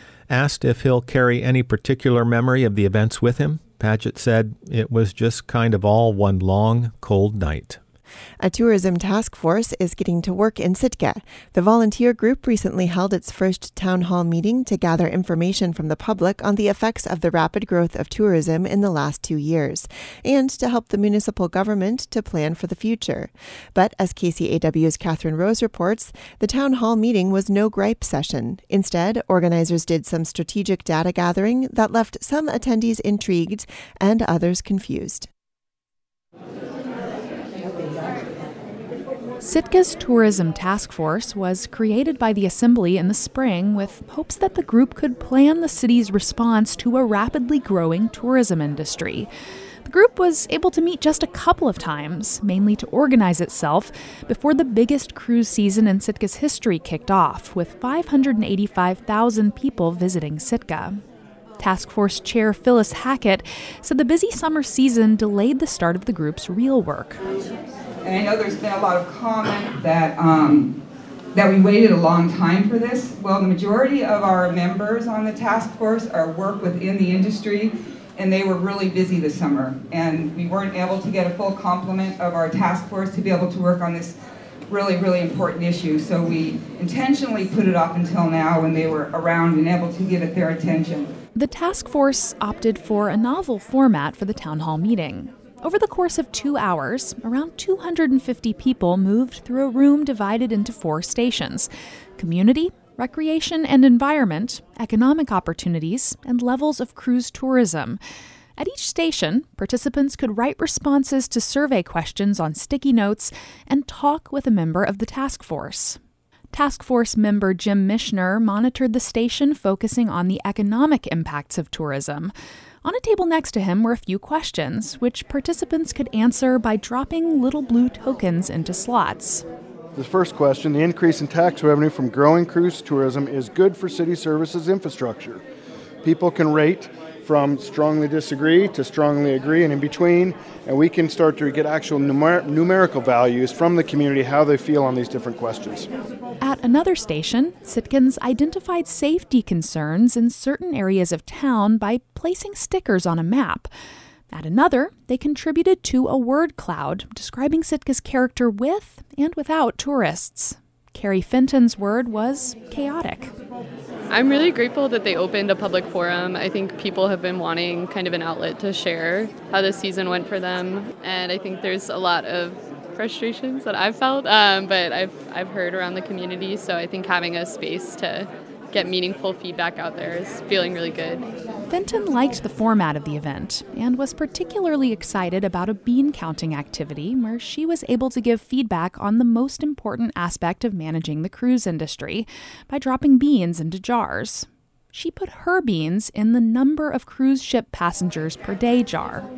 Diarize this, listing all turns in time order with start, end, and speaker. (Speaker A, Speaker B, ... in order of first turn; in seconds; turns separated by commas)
Speaker A: 0.3-7.8, Speaker B: 8.4-35.3, Speaker C: 39.4-49.3, Speaker C: 49.8-61.0, Speaker C: 61.6-67.3, Speaker D: 68.0-70.7, Speaker D: 71.3-84.2, Speaker D: 84.7-91.1, Speaker C: 91.3-108.0, Speaker C: 108.6-116.0, Speaker C: 116.5-122.3, Speaker C: 122.8-129.4, Speaker E: 129.9-135.4, Speaker E: 136.0-145.9, Speaker C: 146.4-153.7, Speaker C: 154.3-163.3, Speaker F: 164.1-181.3, Speaker C: 181.7-199.3